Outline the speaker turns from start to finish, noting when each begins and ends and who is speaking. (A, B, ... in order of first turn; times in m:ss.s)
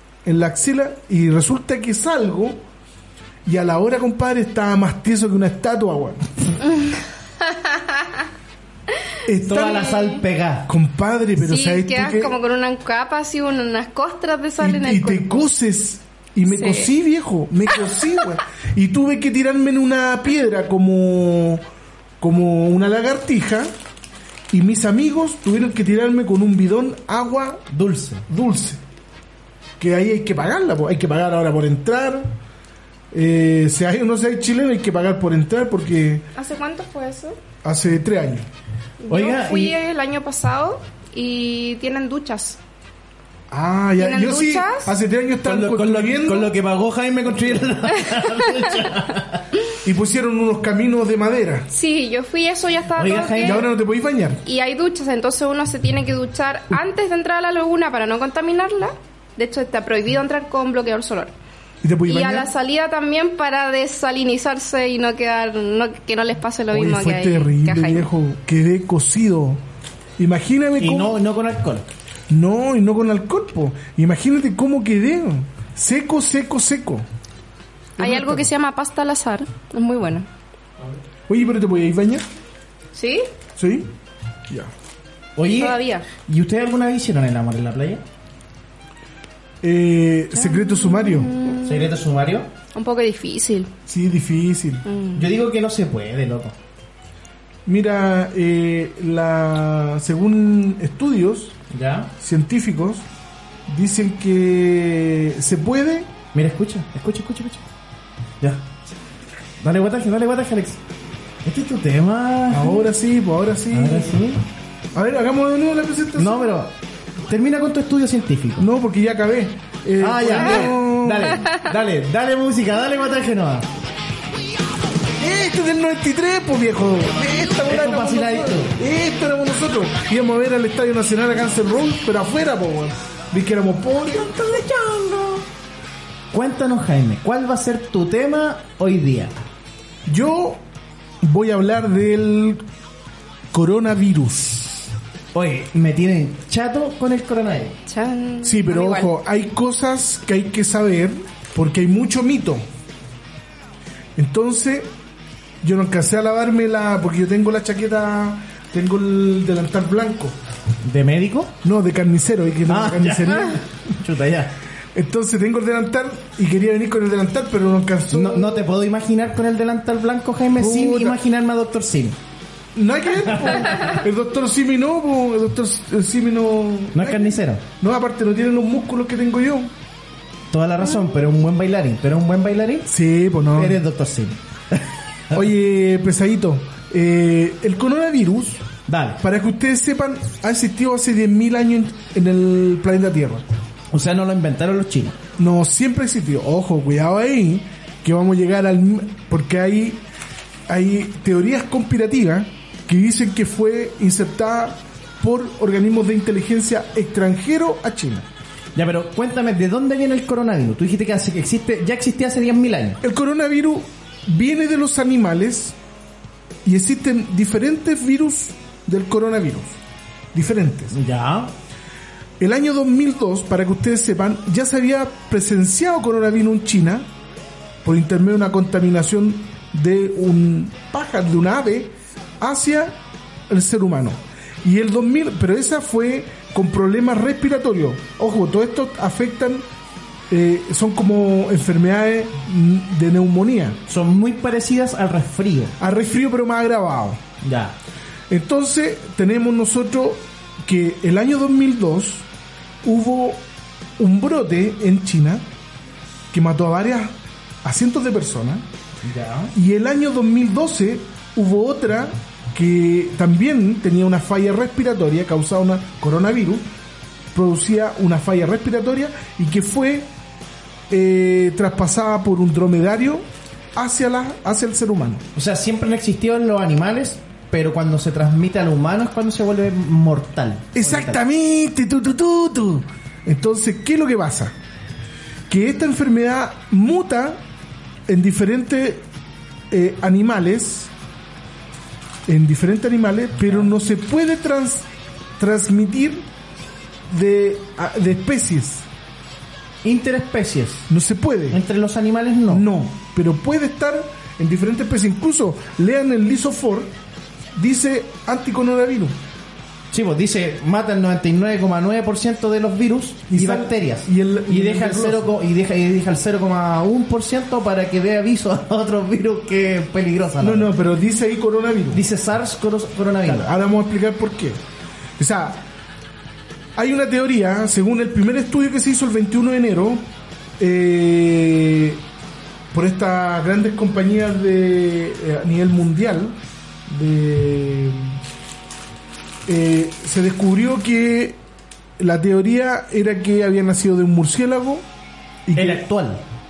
0:00.2-0:02.6 A
0:03.4-0:06.5 A
0:06.7-0:08.0 B
0:09.3-0:10.1 A
0:09.4-0:10.7 C
0:09.6-0:10.2 B
0:10.7-0:12.4 A
0:11.4-0:15.5 B
0:14.6-0:21.6 A
0:16.5-0:16.9 B
0:22.2-0:23.7 A
0:24.5-0:27.6 A
0:27.7-0:28.2 C
0:28.3-0:28.8 A
0:29.8-0:32.4 A
0:33.1-0:36.3 A
0:36.4-0:37.4 B
0:37.6-0:38.5 A
0:39.0-0:42.6 B
0:39.1-0:39.8 C
0:43.5-0:46.5 A
0:44.0-0:44.9 B
0:45.4-0:49.5 C
0:49.8-0:51.7 A
0:51.7-0:53.7 B
0:53.0-0:53.6 C
0:53.4-0:54.4 A
0:54.4-1:01.4 B
1:01.8-1:02.5 A
1:02.1-1:08.1 B
1:06.7-1:09.6 A
1:10.2-1:11.2 A
1:10.8-1:11.9 C
1:12.3-1:17.1 A
1:18.0-1:18.5 A
1:18.0-1:20.3 B
1:21.3-1:22.3 A
1:22.9-1:23.3 B
1:23.6-1:23.9 A
1:25.4-1:28.0 C
1:25.5-1:26.1 B
1:29.6-1:31.3 A
1:30.3-1:32.0 B
1:31.6-1:32.5 C
1:32.7-1:33.7 B
1:33.9-1:34.9 A
1:34.9-1:35.3 B
1:35.1-1:36.6 C
1:37.7-1:41.6 A
1:41.7-1:42.1 C
1:42.2-1:43.1 A
1:43.7-1:46.1 A
1:46.3-1:47.7 C
1:49.6-1:50.8 C
1:51.4-1:52.8 C
1:52.5-1:54.2 A
1:53.7-1:54.4 C
1:54.9-1:56.6 A
1:56.2-1:56.7 C
1:57.3-1:58.7 C
1:58.6-2:01.4 A
2:00.0-2:03.7 C
2:05.2-2:15.4 A
2:07.7-2:08.8 C
2:16.3-2:19.4 C
2:20.1-2:20.6 A
2:21.2-2:22.6 A
2:23.5-2:24.9 A
2:25.3-2:27.8 C
2:27.9-2:29.1 B
2:28.4-2:32.6 A
2:34.2-2:34.9 A
2:35.6-2:40.4 A
2:40.8-2:41.6 C
2:41.6-2:43.6 A
2:42.7-2:44.6 C
2:45.0-2:48.7 A
2:48.1-2:52.2 C
2:50.6-2:51.2 A
2:52.8-2:59.7 A
2:53.3-2:53.9 C
2:56.9-2:57.6 C
3:00.5-3:02.9 C
3:02.9-3:03.8 A
3:03.6-3:05.4 C
3:05.3-3:08.7 A
3:08.9-3:09.2 C
3:09.2-3:13.5 A
3:13.9-3:15.2 C
3:15.4-3:20.0 A
3:20.7-3:28.3 A
3:28.8-3:33.0 C
3:33.0-3:35.8 A
3:36.6-3:39.8 A
3:40.3-3:41.0 A
3:40.9-3:41.5 C
3:42.4-3:47.1 A
3:47.8-3:59.7 A
4:00.3-4:03.8 A
4:03.9-4:05.8 C
4:05.8-4:07.2 A
4:07.4-4:07.8 C
4:08.3-4:12.3 A
4:12.8-4:13.4 A
4:14.0-4:15.5 A
4:16.3-4:18.7 A
4:19.0-4:19.5 C
4:19.5-4:26.7 A
4:27.3-4:30.1 A
4:30.9-4:35.2 A
4:35.4-4:41.2 C
4:40.8-4:44.6 A
4:45.5-4:47.4 A
4:48.1-4:49.1 A
4:49.7-4:50.9 A
4:52.3-4:54.9 A
4:55.4-4:56.2 A
4:57.1-4:58.9 A
4:59.8-5:00.9 C
5:00.9-5:01.6 A
5:01.5-5:02.7 C
5:02.5-5:06.9 A
5:07.6-5:09.2 A
5:09.9-5:20.7 C
5:13.3-5:15.3 A
5:20.4-5:22.0 A
5:21.9-5:23.5 C
5:23.2-5:24.6 A
5:25.2-5:25.7 A
5:26.8-5:30.1 A
5:30.6-5:32.0 A
5:32.7-5:38.2 A
5:39.5-5:41.4 A
5:42.0-5:44.9 A
5:45.5-5:45.8 A
5:45.6-5:46.2 C